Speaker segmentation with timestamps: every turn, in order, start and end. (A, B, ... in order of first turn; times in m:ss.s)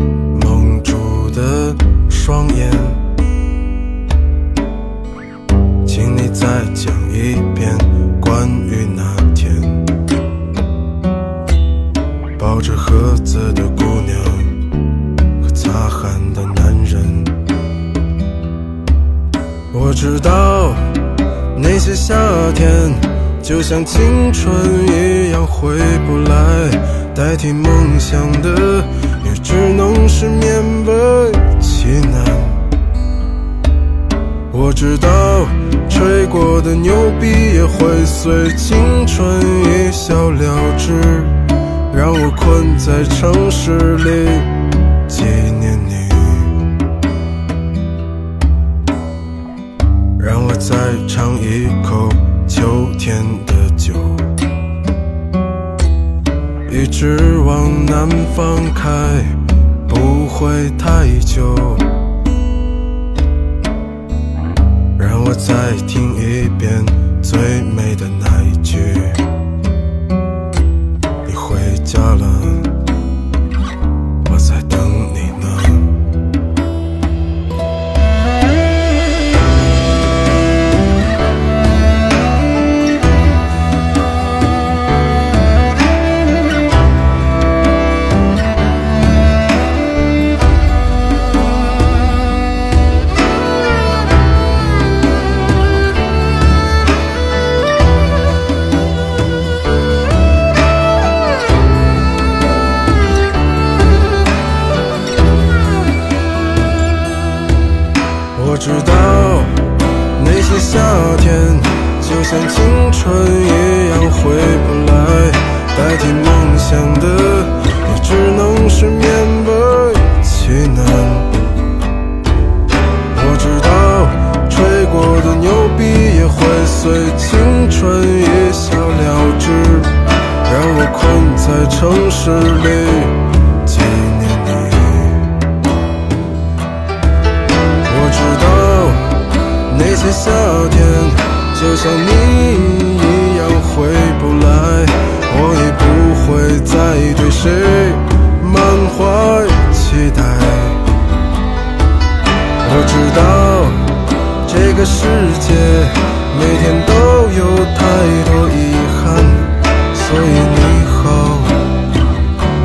0:00.3-0:03.0 A
0:05.8-0:09.9 A
0:12.4-0:14.6 A
0:15.4-0:17.3 A
0:19.7-0:21.0 A
0:21.5-0:32.6 A
0:34.5-0:41.4 A
0:41.9-0:44.5 A
0:45.1-0:46.6 A
0:50.2-0:54.3 A
0:56.7-0:59.3 A
0:59.9-1:01.9 A
1:05.0-1:09.2 A
1:11.2-1:12.7 A
1:14.2-1:15.9 A
1:48.3-2:01.3 A
2:03.1-2:09.9 A
2:10.4-2:15.3 A
2:17.8-2:30.8 A
2:32.6-2:33.9 A
2:34.4-2:41.6 A